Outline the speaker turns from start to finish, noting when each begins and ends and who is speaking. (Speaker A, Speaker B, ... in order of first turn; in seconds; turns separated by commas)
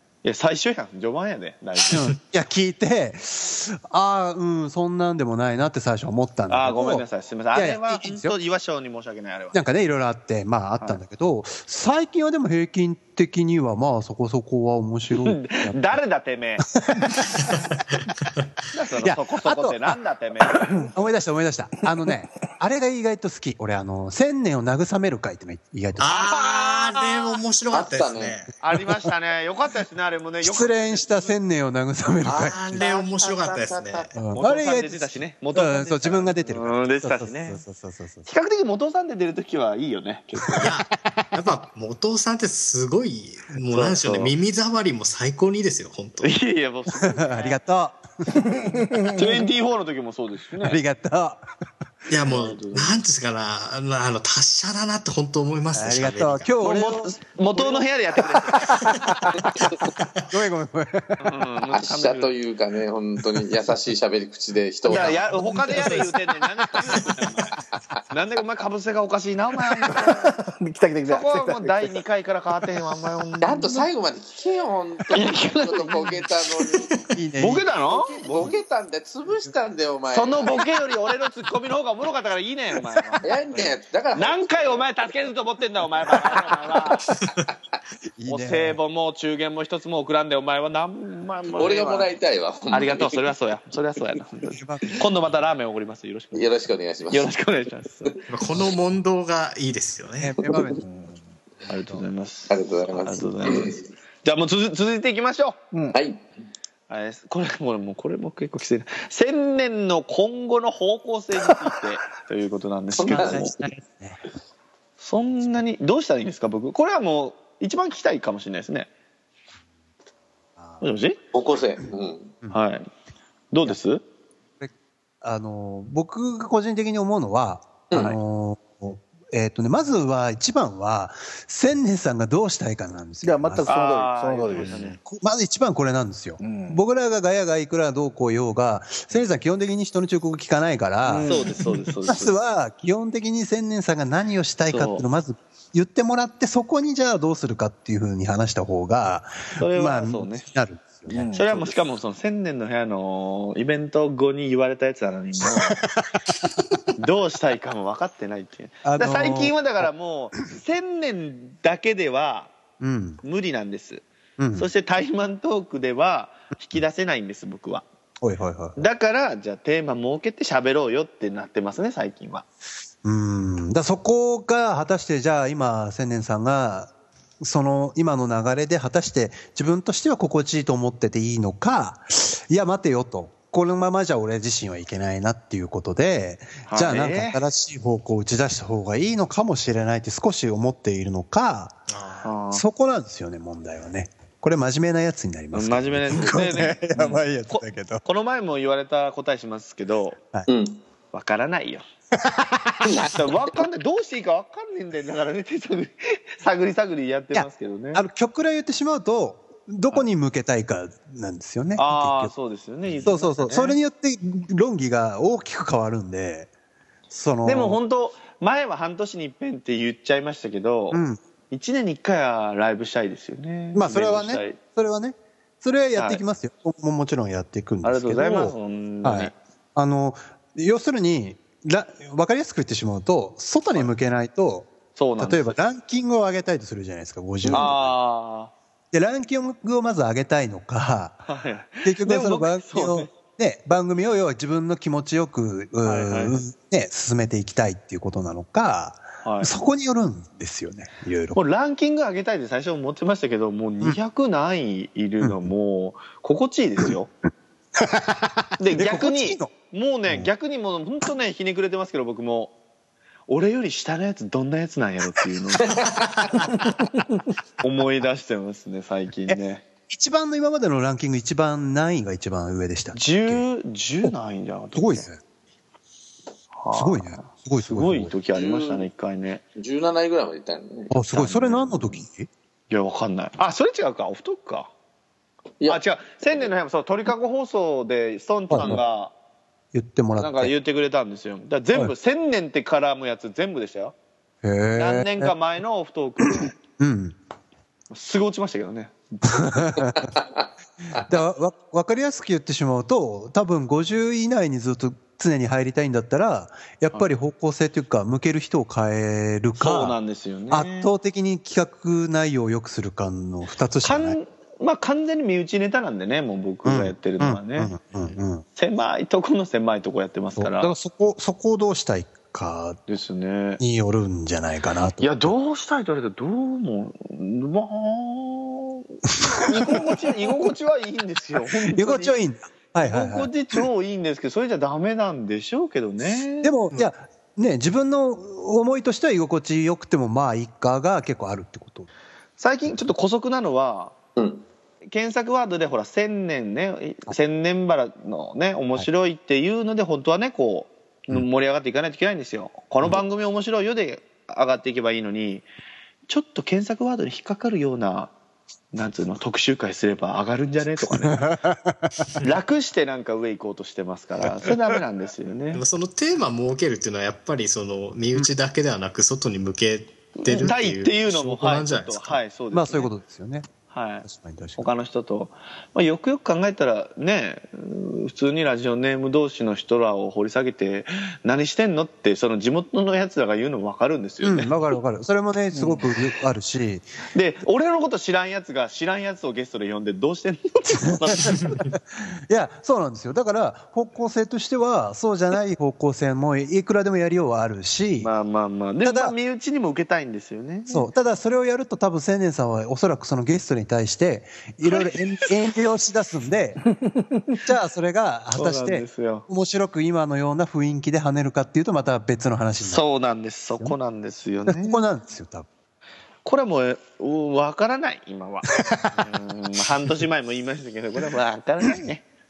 Speaker A: 0.2-2.1, Speaker B: 1.9-8.3, Speaker A: 6.5-9.6, Speaker B: 9.5-16.0, Speaker A: 15.1-16.7, Speaker B: 16.8-17.3, Speaker A: 18.7-20.9, Speaker B: 19.0-19.9, Speaker B: 20.7-26.1, Speaker C: 26.0-28.5, Speaker A: 26.1-27.1, Speaker D: 27.7-28.4, Speaker A: 28.6-31.3, Speaker B: 30.4-32.8, Speaker D: 32.3-34.2, Speaker C: 32.3-34.1, Speaker B: 34.1-38.3, Speaker A: 34.3-37.6, Speaker A: 38.2-40.7, Speaker C: 40.6-46.4, Speaker A: 43.7-44.3, Speaker A: 46.2-47.6, Speaker B: 47.0-48.8, Speaker E: 48.5-49.4, Speaker A: 49.0-50.8, Speaker B: 50.6-51.5, Speaker C: 52.1-56.5, Speaker A: 52.3-53.0, Speaker B: 55.8-57.9, Speaker A: 56.6-58.9, Speaker B: 58.5-59.7, Speaker C: 59.8-60.2, Speaker B: 60.3-61.2, Speaker A: 61.2-62.3, Speaker D: 61.7-65.3, Speaker A: 64.9-67.5, Speaker B: 65.5-66.1, Speaker A: 68.1-70.3, Speaker E: 69.9-72.0, Speaker A: 71.1-73.8, Speaker D: 73.4-76.9, Speaker A: 75.1-76.3, Speaker B: 77.1-77.7, Speaker A: 77.4-78.5, Speaker D: 77.8-80.7, Speaker B: 78.3-78.5, Speaker A: 80.1-87.1, Speaker D: 83.2-84.9, Speaker D: 86.2-86.8, Speaker B: 88.2-88.8, Speaker A: 88.3-92.2, Speaker D: 91.5-93.3, Speaker A: 92.7-96.5, Speaker B: 94.5-95.0, Speaker D: 96.3-97.3, Speaker A: 97.1-98.2, Speaker C: 98.3-100.5, Speaker B: 100.2-100.9, Speaker E: 100.8-101.2, Speaker A: 101.7-105.6, Speaker D: 102.5-103.8, Speaker D: 105.9-106.2, Speaker A: 106.9-113.6, Speaker D: 112.9-113.5, Speaker B: 113.0-114.2, Speaker A: 115.0-118.9, Speaker A: 120.8-121.2, Speaker D: 121.3-122.3, Speaker A: 122.5-122.9, Speaker A: 123.5-124.0, Speaker B: 124.6-133.7, Speaker D: 127.9-128.2, Speaker E: 133.2-134.7, Speaker A: 133.7-135.0, Speaker B: 134.7-141.4, Speaker E: 136.4-136.8, Speaker E: 141.1-141.8, Speaker A: 141.2-142.3, Speaker B: 142.1-151.2, Speaker A: 144.7-145.1, Speaker A: 149.6-150.5, Speaker E: 151.1-151.8, Speaker A: 151.3-155.8, Speaker B: 155.9-156.2, Speaker A: 157.0-162.5, Speaker B: 158.8-159.9, Speaker B: 162.8-163.2, Speaker A: 163.2-164.0, Speaker B: 164.4-164.7, Speaker A: 164.6-167.8, Speaker B: 168.2-168.8, Speaker A: 168.8-172.5, Speaker B: 173.0-191.8, Speaker A: 186.7-187.4, Speaker C: 191.9-192.3, Speaker A: 192.2-192.6, Speaker B: 192.5-198.0, Speaker A: 195.5-200.2, Speaker D: 200.5-200.8, Speaker A: 201.1-201.8, Speaker B: 202.2-202.9, Speaker D: 202.8-203.3, Speaker A: 203.0-208.0, Speaker B: 207.3-212.3, Speaker A: 211.8-213.8, Speaker B: 213.0-216.5, Speaker B: 217.1-217.8, Speaker A: 217.4-224.6, Speaker B: 220.9-221.2, Speaker B: 223.8-238.0, Speaker A: 226.0-226.2, Speaker A: 227.8-229.3, Speaker A: 235.0-235.6, Speaker A: 237.5-238.5, Speaker B: 238.9-241.2, Speaker A: 241.3-243.1, Speaker B: 241.8-251.4, Speaker A: 245.8-246.4, Speaker A: 249.2-249.5, Speaker A: 251.3-257.1, Speaker B: 255.2-255.5, Speaker B: 257.8-259.5, Speaker A: 258.6-262.5, Speaker A: 263.3-265.8, Speaker D: 265.7-266.2, Speaker A: 267.6-269.7, Speaker B: 269.3-273.4, Speaker A: 272.9-275.1, Speaker B: 274.8-275.2, Speaker A: 276.6-279.4, Speaker B: 276.7-278.1, Speaker D: 278.3-278.9, Speaker D: 279.6-281.2, Speaker B: 280.9-282.3, Speaker A: 281.2-282.0, Speaker A: 282.7-284.7, Speaker A: 285.7-289.1, Speaker B: 288.5-288.8, Speaker B: 289.7-290.5, Speaker A: 290.2-293.9, Speaker B: 294.4-295.3, Speaker A: 294.8-296.6, Speaker B: 296.2-297.2, Speaker A: 297.9-299.9, Speaker B: 299.3-300.1, Speaker B: 300.9-310.0, Speaker A: 309.6-310.9, Speaker B: 310.5-314.2, Speaker A: 313.8-317.7, Speaker B: 316.6-318.4, Speaker A: 318.6-320.7, Speaker B: 320.4-322.8, Speaker A: 322.9-323.6, Speaker B: 323.6-325.3, Speaker A: 325.0-332.1, Speaker B: 329.2-329.7, Speaker B: 331.7-333.3, Speaker A: 332.8-336.5, Speaker B: 336.4-341.9, Speaker A: 342.4-343.9, Speaker D: 344.2-344.4, Speaker A: 344.9-355.4, Speaker A: 356.1-358.1, Speaker A: 358.7-361.2, Speaker B: 360.9-362.1, Speaker A: 362.2-365.6, Speaker C: 365.5-372.2, Speaker A: 370.2-372.9, Speaker B: 372.5-373.5, Speaker A: 373.7-374.1, Speaker B: 374.1-374.7, Speaker A: 374.6-384.5, Speaker B: 384.2-386.9, Speaker A: 385.6-385.9, Speaker A: 387.1-391.6, Speaker B: 391.1-398.1, Speaker A: 398.0-400.9, Speaker B: 398.8-399.1, Speaker B: 400.7-406.7, Speaker A: 404.7-405.3, Speaker B: 407.4-412.9, Speaker A: 408.4-409.3, Speaker A: 412.6-414.8, Speaker B: 414.5-415.5, Speaker A: 416.2-422.1, Speaker B: 418.6-419.1